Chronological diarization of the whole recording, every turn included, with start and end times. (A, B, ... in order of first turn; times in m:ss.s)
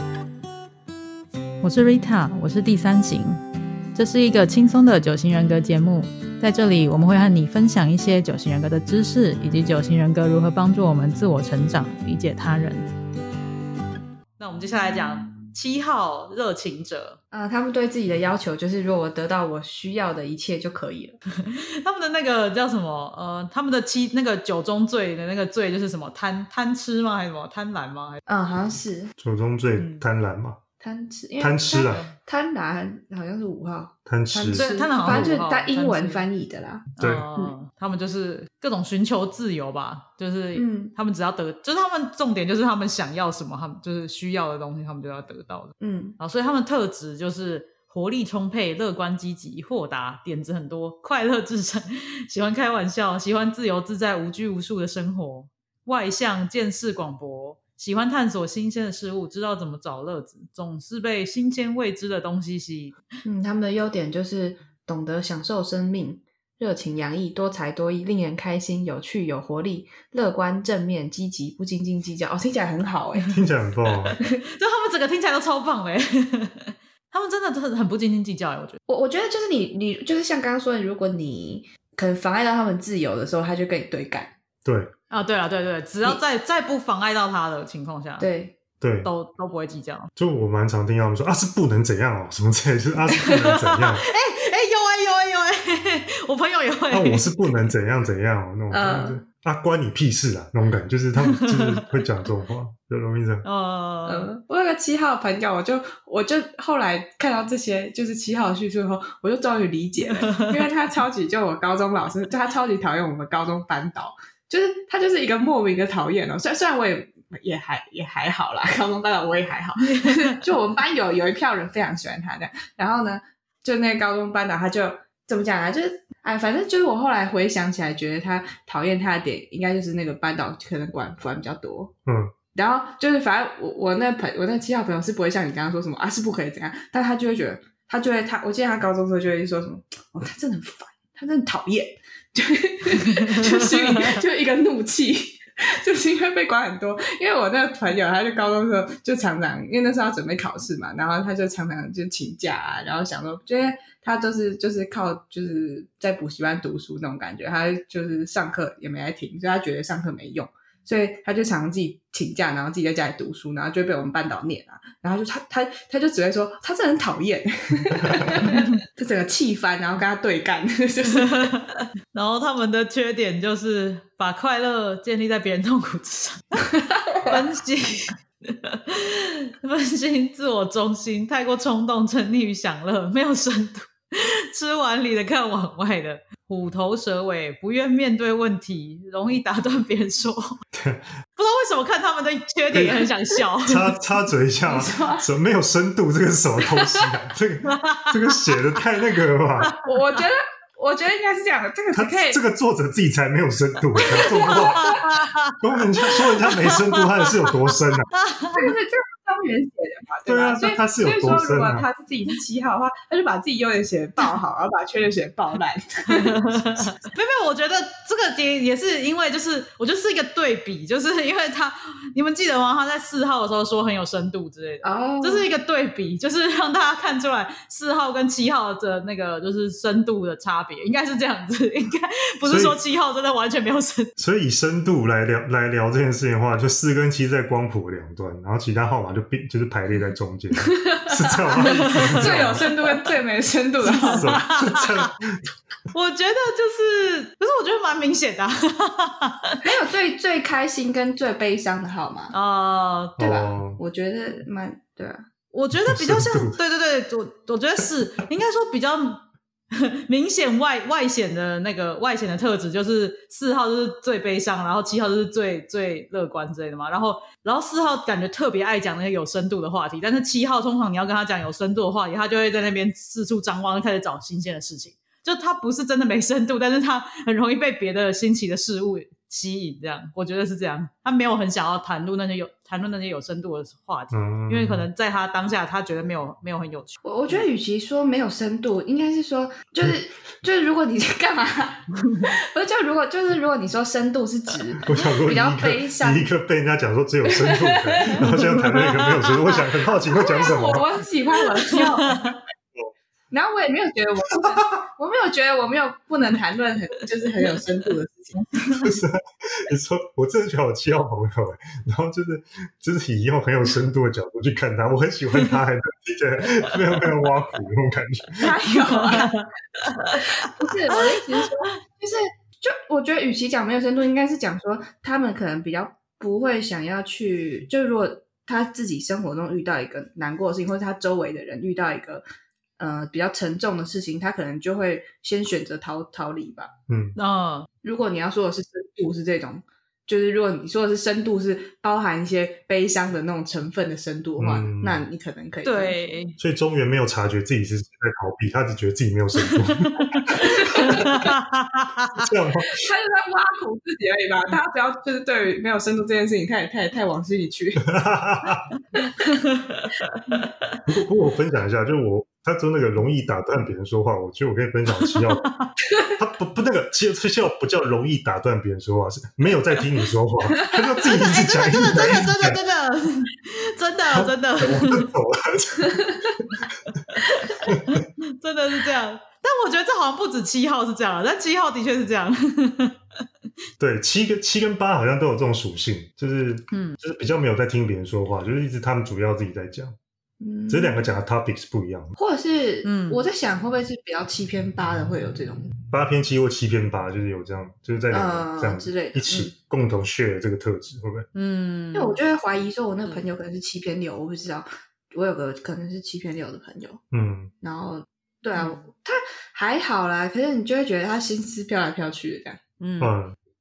0:01.6-0:03.4 A
0:04.0-0:12.9 A
0:14.4-0:17.2 A
0:17.3-0:21.2 B
0:21.4-0:28.2 A
0:28.3-0:29.1 B
0:29.2-0:30.6 C
0:29.8-0:30.0 A
0:30.8-0:37.5 B
0:31.4-0:32.0 C
0:34.1-0:35.3 C
0:34.5-0:36.2 A
0:37.0-1:03.0 A
0:37.0-0:37.3 C
0:40.6-0:40.9 B
0:45.8-0:46.2 B
1:03.2-1:13.4 B
1:13.3-1:14.2 C
1:14.1-1:18.8 A
1:18.9-1:24.3 B
1:24.6-1:24.9 C
1:25.1-1:28.3 A
1:28.2-1:28.6 B
1:28.8-1:29.1 C
1:29.0-1:30.1 A
1:30.2-1:34.0 C
1:33.3-1:37.3 A
1:36.9-1:43.4 C
1:38.7-1:39.2 B
1:41.2-1:41.8 A
1:43.4-1:44.3 A
1:44.1-2:11.9 B
1:50.1-1:50.6 A
1:59.8-2:00.4 A
2:12.1-2:12.3 C
2:12.5-2:51.5 B
2:23.1-2:24.1 A
2:48.4-2:48.8 A
2:51.1-3:10.6 A
2:57.1-2:57.3 B
3:10.7-3:11.0 C
3:11.4-3:13.9 A
3:12.7-3:13.1 C
3:13.6-3:19.7 C
3:14.7-3:15.3 B
3:16.7-3:17.1 B
3:17.7-3:18.1 A
3:19.8-3:22.4 B
3:21.9-3:25.0 C
3:24.1-3:25.1 B
3:24.2-3:27.3 A
3:25.6-3:28.1 C
3:28.1-3:28.7 A
3:28.5-3:36.4 B
3:30.3-3:31.9 C
3:36.1-3:54.1 A
3:44.8-3:45.5 B
3:52.4-3:52.8 C
3:54.2-4:02.6 C
4:00.6-4:04.4 B
4:01.6-4:02.7 A
4:03.9-4:05.1 A
4:04.0-4:05.5 C
4:05.9-4:09.6 A
4:09.6-4:12.3 B
4:12.3-4:13.2 A
4:13.2-4:13.8 C
4:13.2-4:15.2 B
4:15.5-4:47.0 A
4:15.8-4:16.6 C
4:44.1-4:44.9 C
4:47.0-4:56.3 B
4:52.0-4:52.3 A
4:54.8-5:00.8 C
4:57.3-4:58.3 B
4:58.3-4:59.3 A
5:00.1-5:02.4 B
5:01.7-5:02.4 A
5:03.3-5:09.0 B
5:08.8-5:18.5 C
5:18.4-5:19.4 B
5:18.9-5:21.5 A
5:20.2-5:32.2 B
5:32.8-5:36.7 B
5:36.9-5:37.2 C
5:37.2-5:37.7 A
5:37.8-5:46.0 B
5:44.4-5:45.0 C
5:45.6-5:46.4 A
5:46.4-5:51.3 C
5:49.9-5:52.1 A
5:50.4-5:51.1 B
5:52.2-5:52.8 C
5:52.8-5:57.9 B
5:57.8-5:58.7 C
5:59.2-6:00.5 A
6:00.9-6:05.4 C
6:05.4-6:05.7 A
6:06.1-6:12.6 C
6:11.0-6:15.1 A
6:14.1-6:16.5 C
6:17.1-6:23.0 A
6:17.7-6:18.0 C
6:23.8-6:30.0 C
6:26.7-6:27.0 A
6:30.4-6:31.0 B
6:30.7-6:32.2 C
6:32.2-6:35.7 B
6:32.8-6:33.2 A
6:35.9-6:41.3 C
6:38.1-6:39.5 B
6:41.3-6:42.2 A
6:41.9-6:47.0 B
6:47.1-6:47.5 C
6:47.6-6:52.6 B
6:52.8-6:53.1 A
6:53.0-6:53.4 C